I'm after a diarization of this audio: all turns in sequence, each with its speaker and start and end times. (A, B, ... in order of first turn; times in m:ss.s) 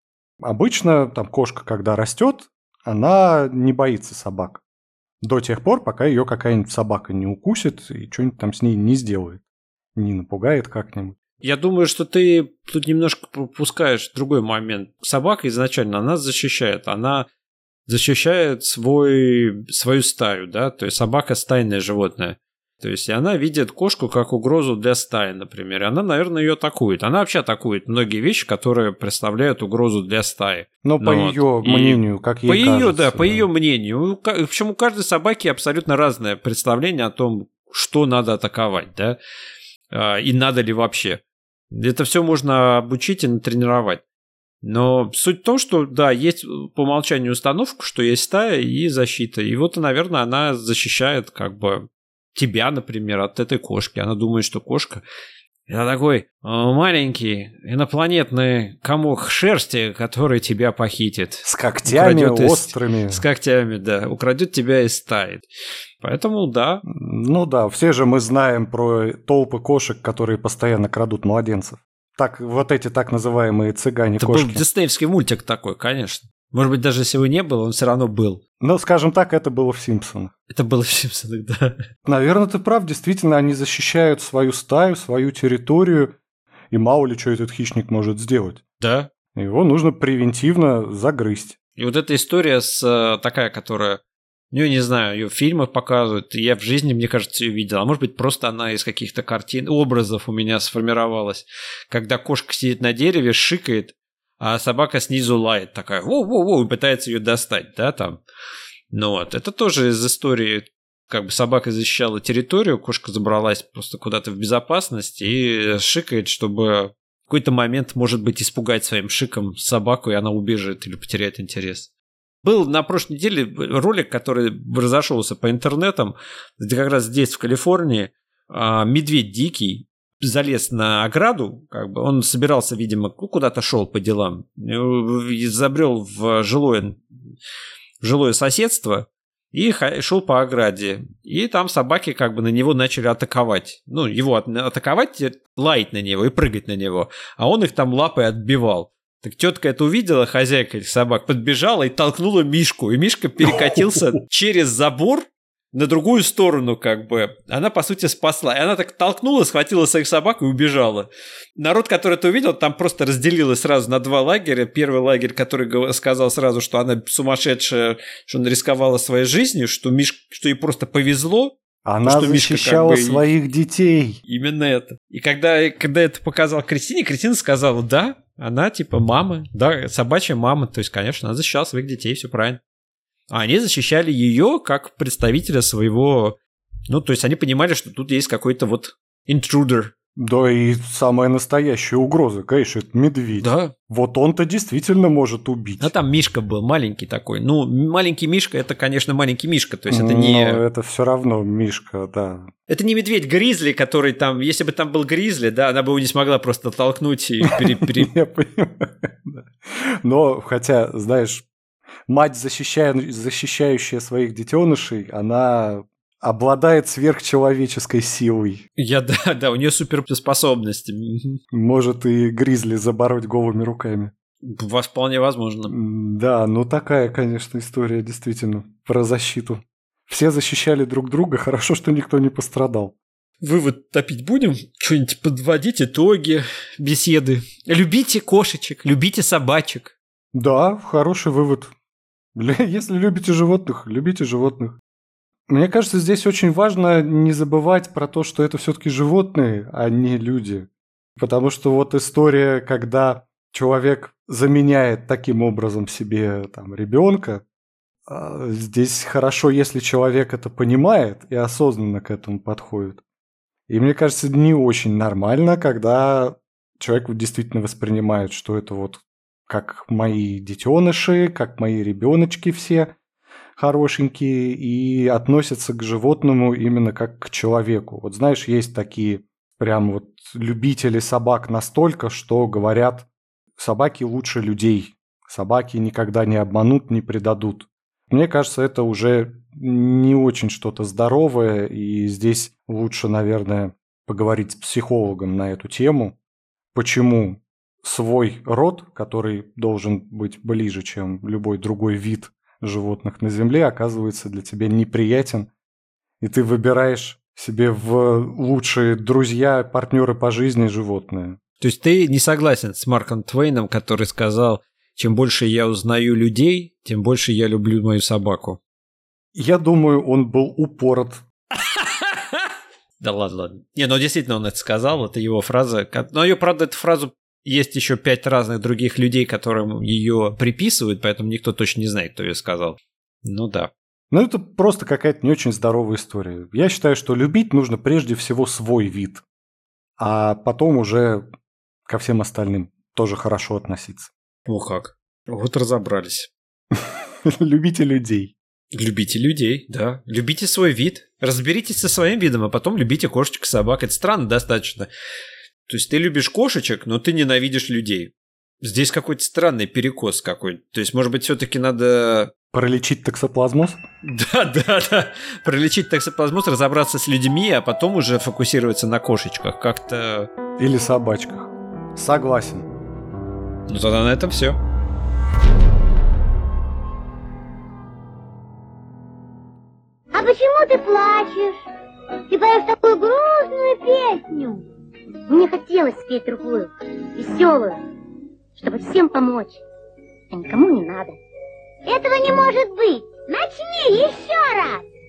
0:00.4-0:04.6 A
0:05.2-0:09.4 A
0:09.9-0:11.2 A
0:11.4-0:17.3 B
0:17.9-0:39.2 B
0:30.8-0:33.5 A
0:39.9-0:44.0 B
0:44.6-0:55.0 B
0:55.7-1:05.4 B
1:01.4-1:03.2 A
1:06.0-1:06.8 B
1:06.8-1:14.6 A
1:14.2-1:18.4 B
1:18.6-1:20.3 A
1:20.5-1:21.8 B
1:22.0-1:26.1 A
1:26.7-1:28.6 A
1:28.8-1:29.1 B
1:29.3-1:31.6 A
1:31.8-1:48.2 B
1:48.9-2:01.9 B
2:02.4-2:17.0 B
2:18.0-2:53.3 B
2:33.4-2:34.1 A
2:51.8-2:54.2 A
2:54.3-3:02.6 B
3:03.3-3:06.4 B
3:06.9-3:09.9 B
3:10.2-3:15.9 A
3:13.4-3:13.7 B
3:15.8-3:20.6 B
3:19.9-3:22.5 A
3:22.7-3:28.1 B
3:27.5-3:31.4 A
3:32.1-3:38.6 A
3:38.8-3:41.4 B
3:41.5-3:44.1 A
3:44.4-3:45.7 B
3:45.7-3:52.9 A
3:53.4-3:59.9 B
4:00.3-4:01.7 A
4:02.3-4:04.8 A
4:05.5-4:17.4 A
4:18.1-4:23.0 A
4:23.7-4:32.9 A
4:33.6-4:56.2 A
4:56.7-5:05.5 A
5:06.2-5:11.4 A
5:11.6-5:18.6 B
5:19.3-5:21.2 A
5:21.6-5:22.4 B
5:23.0-5:33.7 B
5:34.1-5:39.2 A
5:40.0-5:41.2 A
5:41.8-5:44.1 A
5:44.5-5:46.3 B
5:46.7-5:48.3 A
5:48.7-5:54.9 B
5:55.6-6:02.3 B
6:02.5-6:03.8 A
6:04.0-6:10.3 B
6:10.6-6:12.7 A
6:13.7-6:14.6 B
6:20.1-6:21.6 C
6:22.3-6:24.6 C
6:25.3-6:27.8 C
6:28.6-6:29.6 C
6:30.3-6:31.2 C
6:31.8-6:34.8 C